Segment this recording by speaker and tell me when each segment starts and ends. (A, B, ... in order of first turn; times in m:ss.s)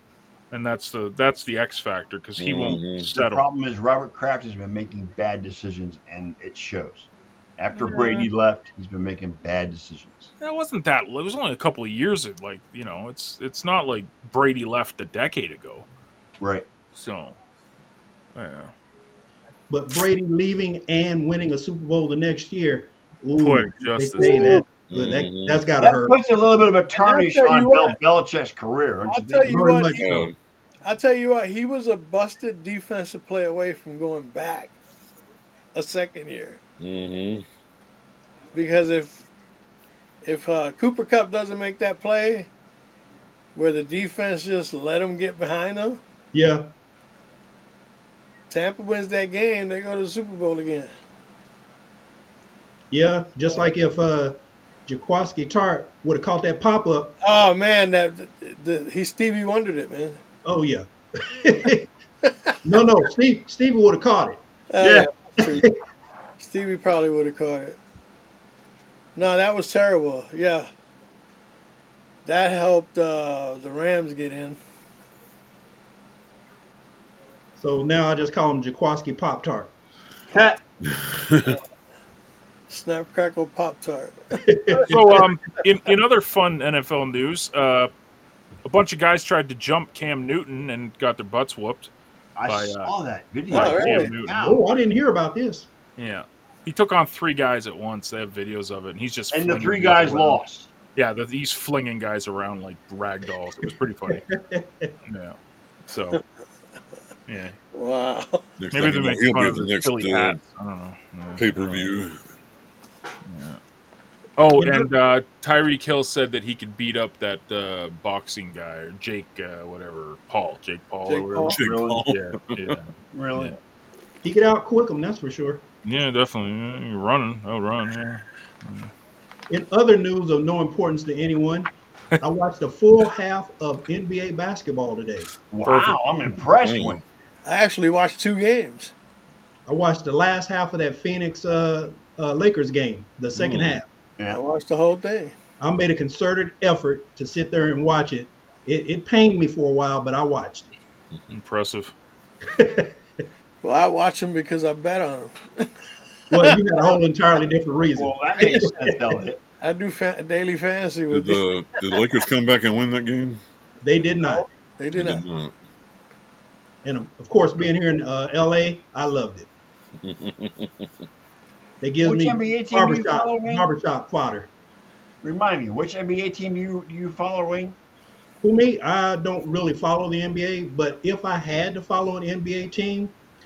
0:00.5-0:03.4 A
0:02.4-0:03.1 B
0:03.0-0:10.3 C
0:07.7-0:08.3 A
0:10.4-0:15.8 A
0:16.4-0:16.6 C
0:16.9-0:17.4 A
0:18.3-0:18.7 A
0:19.7-0:26.2 D
0:23.4-0:24.6 A
0:24.2-0:24.6 E
0:24.9-0:25.6 B
0:25.8-0:29.6 C
0:27.0-0:28.0 E
0:29.1-0:30.2 E
0:29.4-0:30.2 D
0:30.0-0:30.3 B
0:30.8-0:34.7 E
0:35.7-0:36.6 E
0:36.8-0:37.4 B
0:38.5-0:39.2 E
0:40.2-0:42.5 E
0:43.5-0:46.0 E
0:46.3-0:46.7 D
0:48.5-0:50.9 E
0:52.9-0:57.2 D
0:57.2-1:00.2 E
1:00.4-1:01.9 D
1:02.2-1:02.6 E
1:02.6-1:04.4 D
1:04.7-1:05.7 E
1:04.8-1:05.1 C
1:05.4-1:05.7 D
1:06.4-1:07.8 E
1:09.2-1:10.7 E
1:12.2-1:14.6 E
1:17.6-1:19.7 D
1:20.3-1:20.6 C
1:20.9-1:21.6 B
1:22.7-1:25.1 E
1:24.3-1:25.2 D
1:24.9-1:27.9 A
1:28.6-1:31.9 A
1:32.4-1:34.6 C
1:32.4-1:32.9 A
1:33.5-1:34.4 A
1:33.5-1:34.1 E
1:34.4-1:35.7 D
1:36.0-1:40.4 A
1:39.3-1:40.7 C
1:40.9-1:44.3 A
1:44.1-1:44.9 D
1:45.0-1:46.2 A
1:47.3-1:47.5 A
1:47.7-1:48.4 E
1:48.6-1:50.4 B
1:48.7-1:51.9 A
1:51.4-1:52.2 B
1:53.2-1:53.6 A
1:54.4-2:03.6 A
1:54.6-1:54.9 D
2:01.0-2:01.5 E
2:01.4-2:02.0 C
2:01.5-2:02.8 B
2:03.1-2:03.6 C
2:04.2-2:05.6 D
2:05.8-2:08.9 A
2:09.5-2:15.3 D
2:15.5-2:17.0 C
2:15.6-2:16.0 A
2:16.6-2:17.0 B
2:17.4-2:18.9 E
2:19.7-2:23.8 D
2:23.4-2:23.8 B
2:24.3-2:25.3 E
2:25.6-2:30.7 D
2:31.3-2:31.9 A
2:32.5-2:32.9 D
2:33.6-2:35.7 E
2:36.3-2:39.0 D
2:38.0-2:39.4 C
2:39.6-2:41.4 E
2:41.1-2:43.4 B
2:43.8-2:44.4 D
2:44.2-2:45.2 E
2:44.9-2:45.5 B
2:46.8-2:49.5 D
2:50.0-2:50.9 B
2:51.8-2:54.5 D
2:52.0-2:53.7 C
2:55.2-2:57.8 C
2:58.4-3:03.1 D